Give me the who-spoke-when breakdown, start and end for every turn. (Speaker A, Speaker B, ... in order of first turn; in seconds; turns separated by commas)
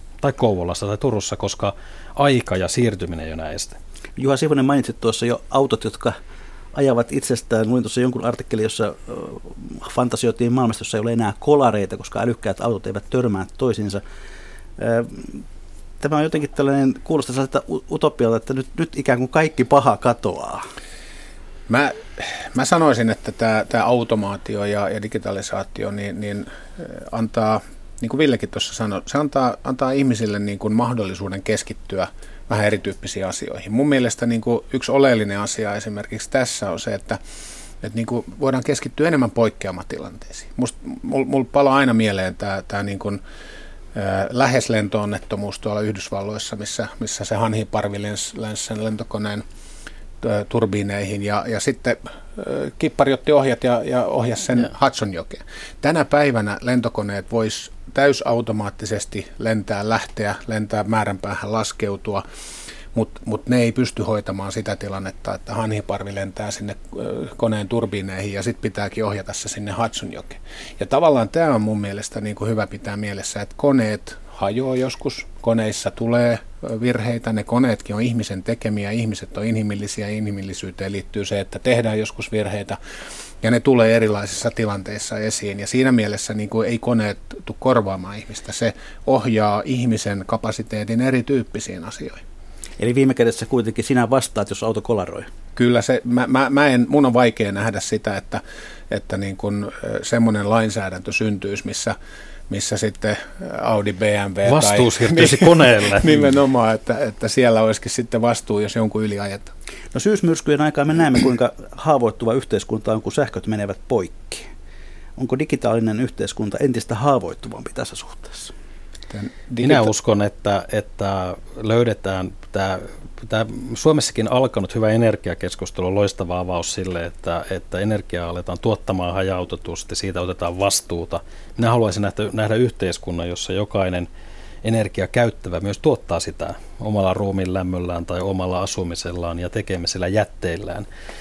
Speaker A: 0.2-3.8, Speaker B: 4.2-6.2, Speaker B: 6.7-14.0, Speaker B: 14.8-15.4, Speaker B: 16.0-20.7, Speaker C: 21.7-37.2, Speaker C: 37.8-43.2, Speaker C: 43.9-49.4, Speaker C: 50.2-62.2, Speaker C: 62.9-82.8, Speaker C: 83.4-92.2, Speaker B: 92.8-95.3, Speaker C: 95.6-102.0, Speaker C: 102.5-109.5, Speaker A: 104.5-106.3, Speaker B: 109.9-114.5, Speaker B: 115.2-118.5, Speaker C: 119.1-119.9, Speaker A: 119.6-134.1, Speaker A: 134.6-140.9